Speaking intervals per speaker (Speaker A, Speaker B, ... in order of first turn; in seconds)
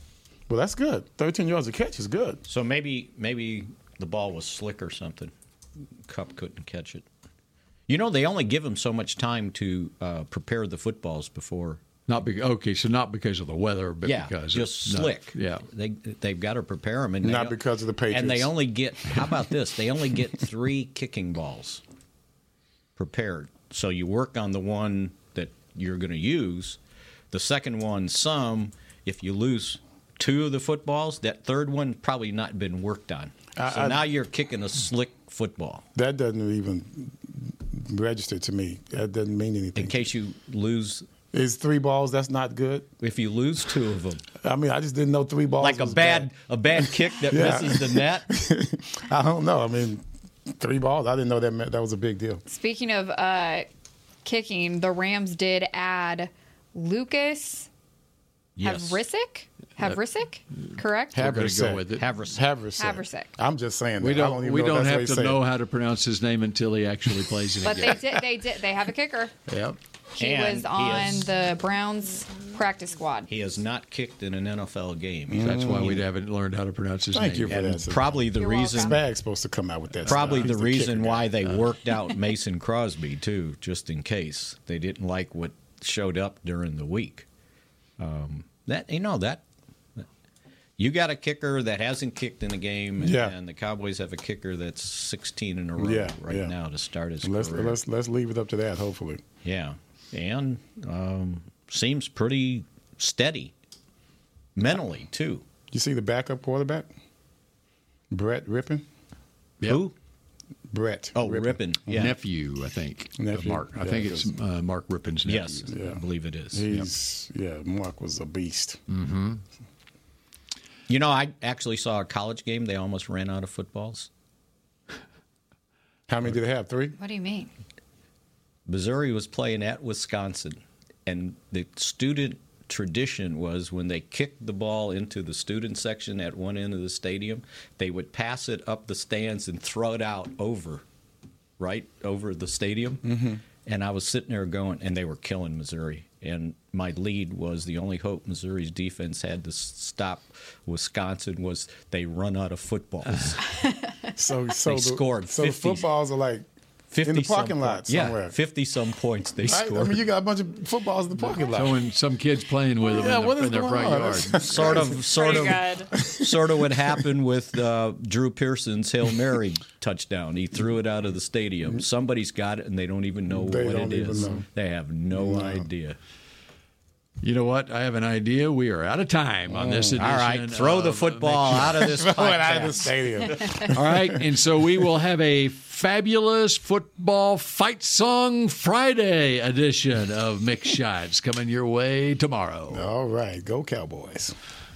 Speaker A: 0.5-2.4, 17.2-18.5, 33.6-34.0, 35.9-40.1, 41.3-42.9, 44.4-46.3, 47.2-52.4, 61.1-65.4, 69.5-69.8, 75.3-76.0, 77.1-81.4, 93.0-93.3, 95.8-96.5, 97.2-99.2, 105.7-106.9, 108.1-108.8, 110.7-112.1, 113.2-114.3, 115.7-116.0, 116.5-118.8, 126.1-126.9, 143.0-143.4, 154.2-156.4, 157.0-158.3, 159.4-161.8, 162.8-166.9, 173.3-174.4, 175.1-175.7, 179.5-180.0, 181.9-184.2, 192.7-194.3
Speaker B: 2.5-5.3, 6.1-7.0, 7.9-11.8, 14.0-17.6, 18.1-21.8, 23.0-26.8, 27.3-35.8, 39.7-41.0, 43.0-44.2, 45.6-48.3, 58.6-59.0, 62.0-62.4, 70.2-71.3, 73.3-76.0, 77.5-79.0, 80.0-87.3, 88.0-89.4, 90.8-97.8, 99.4-103.5, 104.5-105.4, 109.6-109.9, 111.1-112.2, 115.2-116.7, 120.9-124.1, 128.7-140.8, 141.6-143.0, 143.7-153.4, 154.7-155.9, 156.9-160.0, 164.4-176.0, 180.0-182.9
Speaker C: 12.1-15.6, 61.1-62.0, 64.0-68.1, 75.4-77.8, 80.0-80.5, 112.0-115.7, 118.9-119.4, 161.4-164.6, 174.2-174.4, 177.2-182.0, 183.7-192.9
Speaker D: 52.5-53.7, 54.2-57.7, 58.6-61.2, 62.8-63.3, 67.6-69.3, 70.2-73.3, 78.3-79.0, 127.0-127.5, 153.7-154.1, 165.0-165.9